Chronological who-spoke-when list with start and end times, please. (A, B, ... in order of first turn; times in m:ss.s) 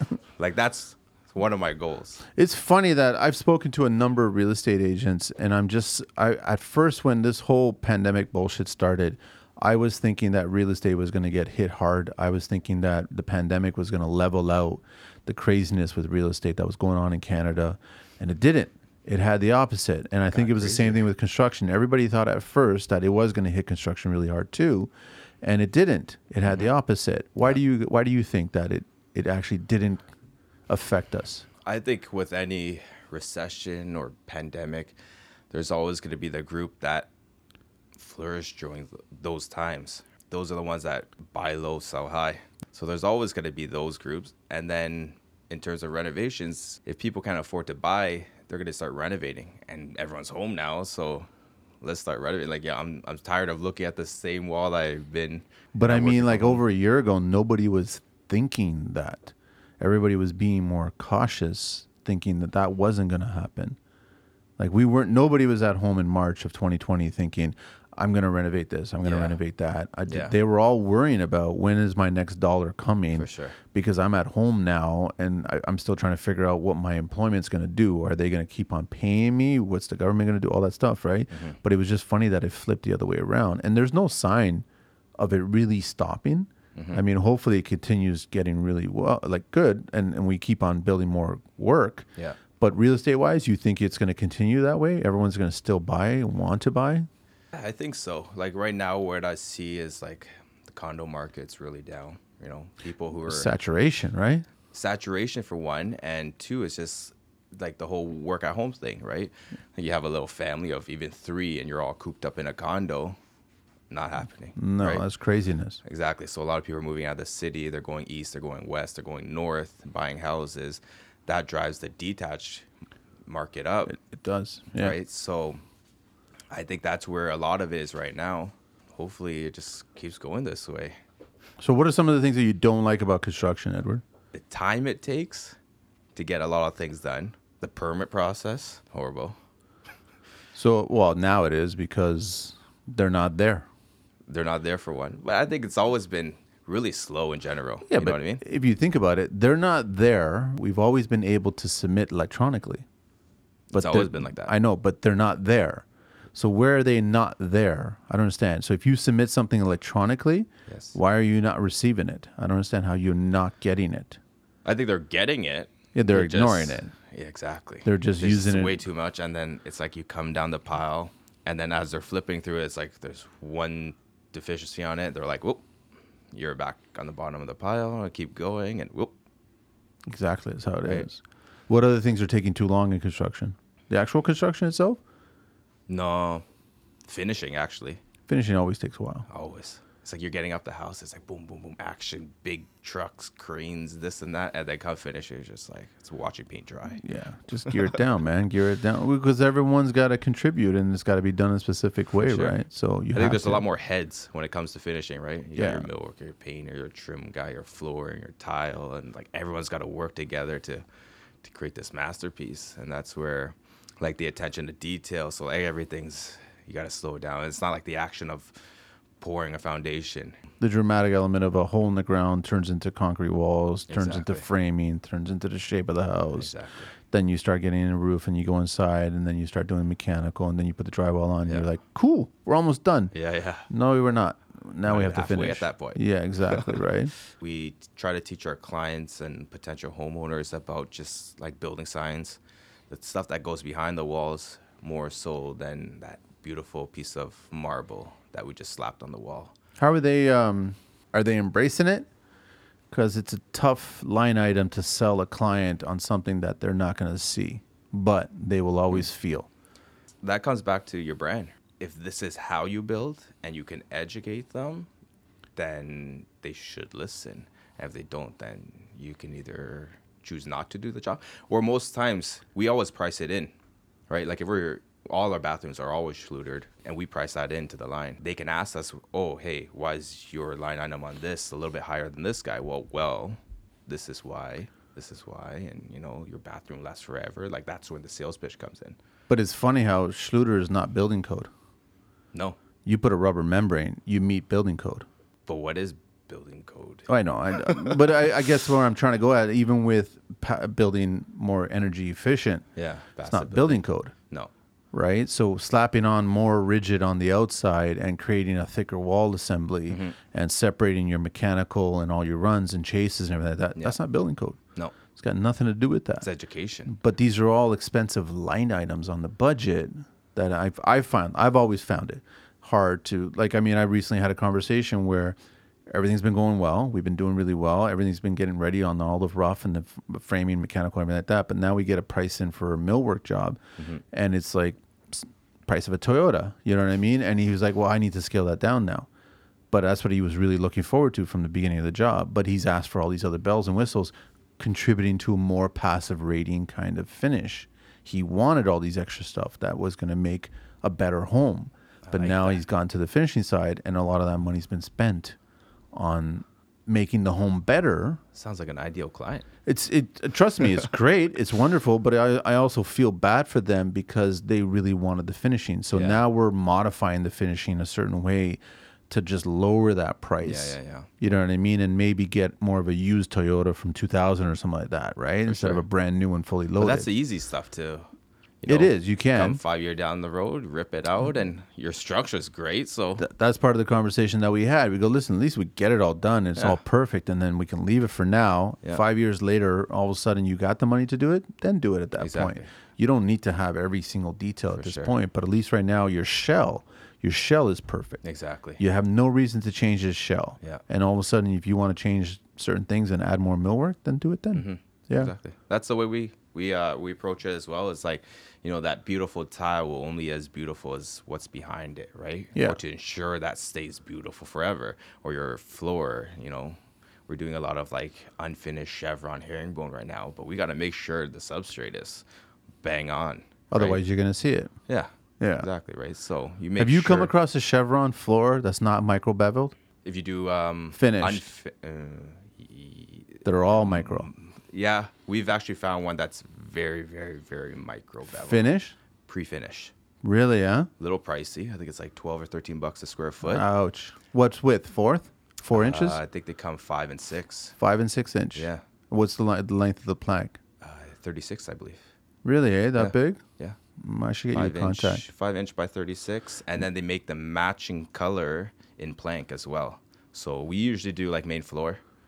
0:00.4-0:02.2 A
0:02.3-0:24.9 B
0:20.3-0:21.0 A
0:25.4-0:30.0 B
0:26.4-0:26.7 A
0:30.7-0:31.4 B
0:31.6-0:34.9 A
0:35.5-0:37.1 A
0:38.0-0:51.3 A
0:51.8-0:56.6 A
0:55.7-1:03.8 B
1:04.6-1:24.6 B
1:09.0-1:09.4 A
1:10.1-1:10.3 A
1:13.1-1:13.6 A
1:21.3-1:21.6 A
1:25.2-1:32.1 B
1:26.8-1:27.0 A
1:32.6-1:37.1 B
1:37.5-1:43.5 A
1:43.3-1:44.4 B
1:44.7-1:53.2 A
1:53.9-1:55.0 A
1:54.6-1:55.8 B
1:55.8-2:02.6 A
2:03.3-2:04.0 A
2:03.9-2:05.0 B
2:04.7-2:05.6 A
2:06.5-2:11.0 A
2:11.6-2:14.0 B
2:14.3-2:15.6 A
2:16.1-2:19.4 A
2:20.5-2:23.7 B
2:24.3-2:28.4 A
2:27.9-2:32.8 B
2:33.7-2:34.5 A
2:33.7-2:44.2 B
2:40.7-2:41.0 A
2:44.6-2:55.6 A
2:45.9-2:46.9 B
2:47.8-2:48.8 B
2:56.3-2:59.1 A
3:00.0-3:05.0 B
3:05.9-3:06.4 A
3:07.0-3:08.0 A
3:08.3-3:09.2 B
3:09.3-3:17.0 A
3:17.0-3:23.6 B
3:22.2-3:22.6 A
3:23.1-3:30.8 A
3:25.6-3:25.9 B
3:31.4-3:38.5 A
3:39.2-3:40.4 A
3:40.6-3:46.5 B
3:43.9-3:44.4 A
3:46.3-3:46.9 A
3:47.1-3:53.1 B
3:53.1-3:53.7 A
3:53.7-3:57.1 B
3:54.8-4:02.4 A
4:02.9-4:09.5 A
4:09.8-4:12.1 B
4:12.9-4:19.5 B
4:20.2-4:24.9 A
4:25.6-4:33.5 A
4:34.1-4:49.0 A
4:49.3-4:51.5 B
4:52.8-4:55.0 B
4:55.5-4:58.2 A
4:57.1-5:02.6 B
5:02.8-5:04.5 A
5:03.2-5:04.1 B
5:04.9-5:14.6 B
5:09.9-5:10.2 A
5:15.1-5:16.3 B
5:16.2-5:16.9 A
5:16.9-5:25.4 B
5:25.9-5:33.6 B
5:34.1-5:39.1 B
5:39.7-5:55.4 B
5:52.0-5:52.6 A
5:55.9-5:58.2 B
5:58.3-5:59.4 A
5:59.6-6:17.1 B
6:05.9-6:06.2 A
6:10.4-6:11.1 A
6:15.4-6:15.8 A
6:16.8-6:18.1 A
6:18.6-6:23.2 A
6:18.7-6:19.6 B
6:23.2-6:38.2 B
6:32.2-6:32.7 A
6:34.7-6:35.1 A
6:38.2-6:38.8 A
6:38.8-6:45.3 B
6:44.5-6:56.8 A
6:57.3-7:02.2 A
7:02.8-7:04.0 A
7:03.7-7:04.7 B
7:04.9-7:07.3 A
7:05.4-7:05.7 B
7:06.8-7:09.7 B
7:10.0-7:18.7 A
7:10.9-7:11.4 B
7:13.4-7:14.3 B
7:18.3-7:19.0 B
7:19.2-7:19.9 A
7:20.2-7:20.9 B
7:21.0-7:23.7 A
7:23.4-7:26.2 B
7:25.7-7:27.8 A
7:27.8-7:30.6 B
7:28.5-7:28.8 A
7:30.8-7:32.0 A
7:32.4-7:33.4 B
7:33.0-7:33.8 A
7:34.0-7:35.2 B
7:34.5-7:42.0 A